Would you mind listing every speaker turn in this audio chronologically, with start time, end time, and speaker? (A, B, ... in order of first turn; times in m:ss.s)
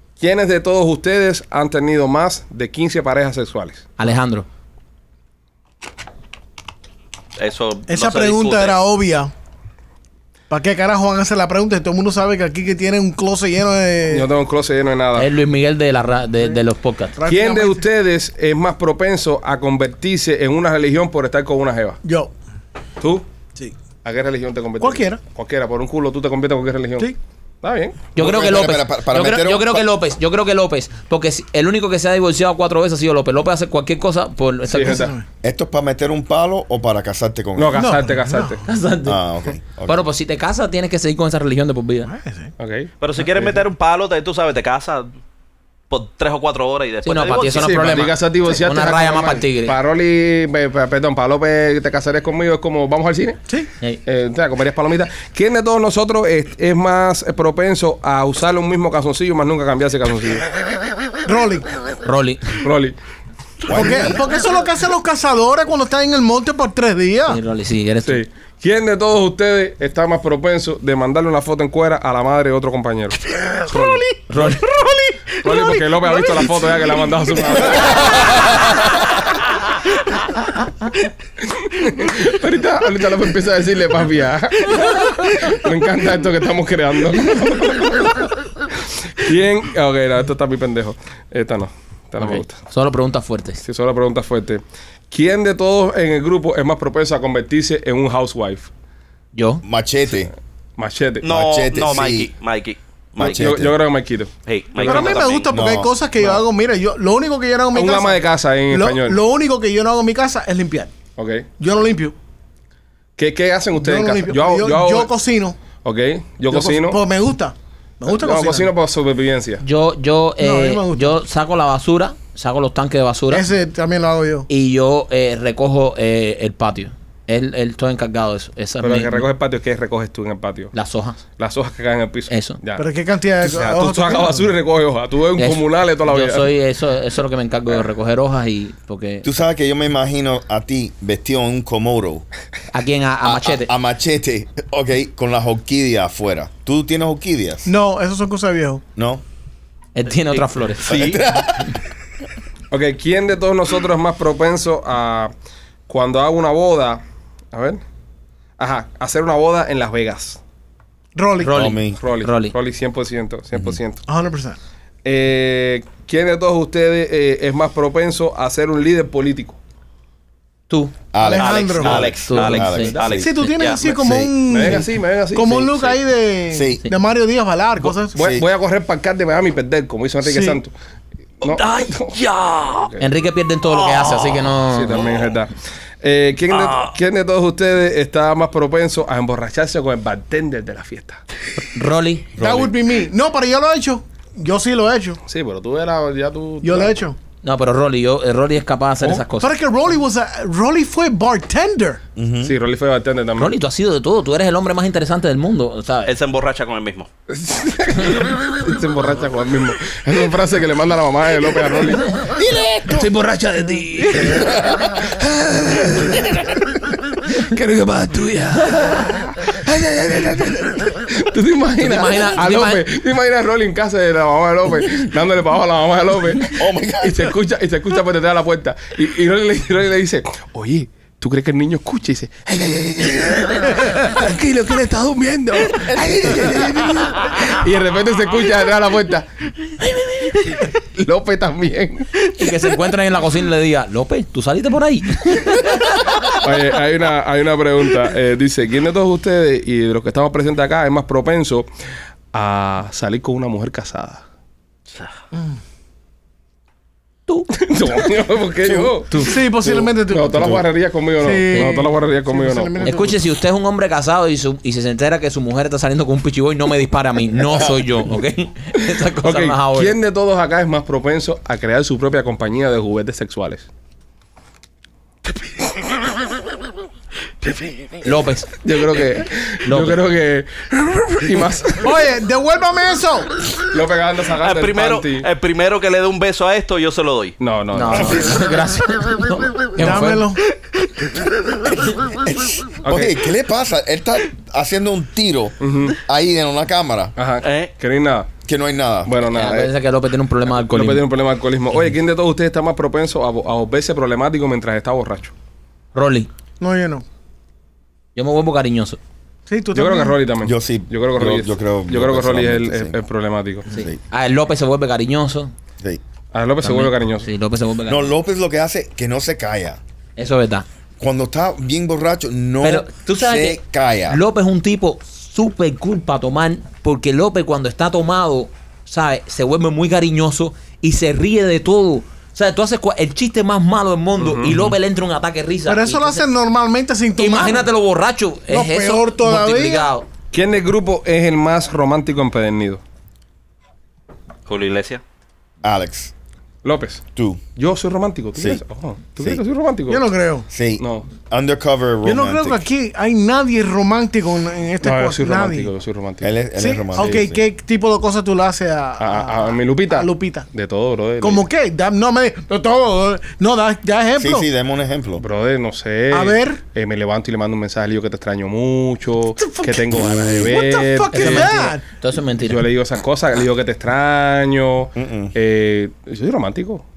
0:00.2-0:03.9 A
0:04.0-0:04.5 B
0:07.4-0:08.8 C
0:07.9-0:09.3 D
0:10.5-0:14.3 D
0:14.1-0:15.3 A
0:15.2-0:17.2 B
0:17.2-0:17.8 D
0:17.3-0:22.0 A
0:22.0-0:22.3 D
0:24.0-0:28.0 A
0:24.8-0:25.2 D
0:28.2-0:35.1 B
0:28.2-0:29.9 E
0:34.7-0:35.1 A
0:34.8-0:35.2 D
0:35.4-0:37.9 E
0:37.6-0:38.6 A
0:37.8-0:38.6 D
0:38.7-0:39.2 B
0:39.0-0:40.0 E
0:39.8-0:42.1 B
0:42.0-0:42.5 D
0:42.6-0:43.6 A
0:43.0-0:45.1 C
0:45.9-0:48.1 C
0:47.0-0:49.8 B
0:47.5-0:53.4 A
0:54.1-1:00.5 A
1:01.2-1:01.8 D
1:02.0-1:02.6 B
1:02.6-1:03.0 A
1:03.7-1:04.2 E
1:03.7-1:07.4 D
1:07.3-1:08.2 B
1:08.1-1:14.6 A
1:13.7-1:14.0 D
1:14.3-1:14.7 B
1:14.6-1:15.8 D
1:15.4-1:18.8 A
1:21.4-1:32.6 A
1:32.2-1:33.6 B
1:33.6-1:38.7 A
1:39.4-1:39.6 B
1:39.6-1:40.3 E
1:40.8-1:41.3 A
1:41.2-1:43.5 C
1:41.3-1:42.3 E
1:43.2-1:43.7 E
1:43.2-1:45.3 A
1:44.5-1:45.5 C
1:44.8-1:50.9 D
1:45.5-1:45.9 E
1:46.2-1:46.4 A
1:47.7-1:49.2 A
1:51.2-1:51.5 A
1:51.6-1:52.2 D
1:53.2-1:55.1 A
1:53.8-1:55.6 D
1:55.8-1:57.0 A
1:56.5-1:58.7 D
1:58.1-1:59.6 A
1:59.6-2:03.5 B
2:00.4-2:01.2 D
2:03.3-2:04.5 D
2:04.5-2:09.2 B
2:08.8-2:10.7 A
2:10.7-2:11.2 B
2:11.4-2:12.9 A
2:12.3-2:12.6 B
2:12.8-2:14.5 D
2:13.4-2:16.5 A
2:15.4-2:19.3 B
2:19.2-2:22.2 E
2:22.7-2:23.7 B
2:23.2-2:27.7 E
2:27.7-2:28.8 D
2:29.0-2:29.2 E
2:30.0-2:31.2 B
2:30.9-2:31.8 E
2:32.7-2:35.3 A
2:35.9-2:37.8 A
2:38.6-2:40.4 A
2:41.2-2:41.6 D
2:41.4-2:42.5 B
2:41.5-2:42.0 E
2:42.0-2:44.0 A
2:44.1-2:44.6 D
2:45.0-2:49.6 A
2:50.7-2:51.0 B
2:51.1-2:54.8 E
2:51.2-2:52.1 D
2:51.4-2:53.8 C
2:52.0-2:53.0 B
2:53.2-2:58.1 D
2:54.5-2:56.0 A
2:56.5-2:56.8 E
2:58.1-3:00.7 A
2:58.2-2:58.5 E
3:00.2-3:00.6 D
3:01.4-3:02.2 A
3:01.4-3:02.9 C
3:02.7-3:03.0 A
3:03.0-3:05.1 B
3:03.7-3:04.5 C
3:04.6-3:11.2 A
3:06.5-3:06.9 C
3:11.6-3:12.3 B
3:12.4-3:12.7 E
3:12.4-3:15.2 D
3:15.3-3:17.0 A
3:16.6-3:17.2 D
3:17.4-3:19.5 B
3:19.4-3:22.0 D
3:22.2-3:22.5 E
3:22.4-3:23.5 A
3:23.4-3:26.1 B
3:26.1-3:27.1 C
3:27.3-3:59.3 A
3:32.4-3:33.1 E
3:34.3-3:34.9 E
3:41.8-3:42.8 B
3:46.5-3:47.3 E
3:55.9-3:56.9 E
3:59.8-4:02.1 A
4:02.4-4:05.8 B
4:06.3-4:11.7 A
4:12.3-4:14.2 A
4:17.5-4:22.9 A
4:18.6-4:19.0 E
4:19.2-4:20.6 D
4:19.6-4:20.6 E
4:21.2-4:23.2 D
4:21.5-4:21.8 B
4:22.8-4:30.0 B
4:27.4-4:27.9 E
4:29.2-4:33.7 A
4:37.4-4:37.9 C
4:38.0-4:38.5 B
4:38.6-4:42.0 A
4:39.7-4:40.0 B
4:41.8-4:43.3 D
4:43.6-4:45.3 A
4:44.4-4:47.4 C
4:47.4-4:48.4 A
4:47.7-4:50.3 B
4:49.8-4:50.4 D
4:51.4-4:57.1 E
4:52.8-4:53.2 A
4:55.6-4:56.0 A
4:57.2-4:58.3 A
4:57.4-4:57.7 C
4:58.4-4:59.1 E
4:59.0-4:59.7 A
4:59.3-5:01.0 B
5:00.5-5:05.3 A
5:06.0-5:06.3 B
5:06.6-5:07.0 D
5:08.2-5:09.0 B
5:09.5-5:10.2 D
5:09.7-5:13.7 A
5:10.4-5:13.0 E
5:13.7-5:15.5 B
5:13.7-5:14.0 E
5:16.3-5:17.3 A
5:16.6-5:18.1 B
5:17.9-5:19.8 E
5:20.2-5:20.7 B
5:21.0-5:24.2 E
5:22.6-5:36.2 B
5:34.2-5:34.7 A
5:35.7-5:37.7 D
5:37.2-5:40.1 B
5:38.5-5:39.9 D
5:40.3-5:42.8 A
5:44.5-5:45.0 C
5:45.6-5:46.1 E
5:46.6-5:47.0 A
5:47.2-5:47.4 E
5:47.6-5:50.1 A
5:48.4-5:48.6 E
5:49.9-5:50.5 D
5:50.5-5:52.6 E
5:50.8-5:51.1 A
5:52.0-5:55.7 D
5:54.8-5:56.3 A
5:56.2-5:57.4 E
5:56.6-6:00.5 D
5:59.0-6:01.4 A
6:01.2-6:04.5 D
6:04.2-6:05.2 E
6:05.2-6:11.6 A
6:06.1-6:06.6 D
6:09.4-6:11.8 D
6:09.9-6:10.5 E
6:11.1-6:12.6 B
6:12.4-6:16.8 A
6:15.0-6:15.3 E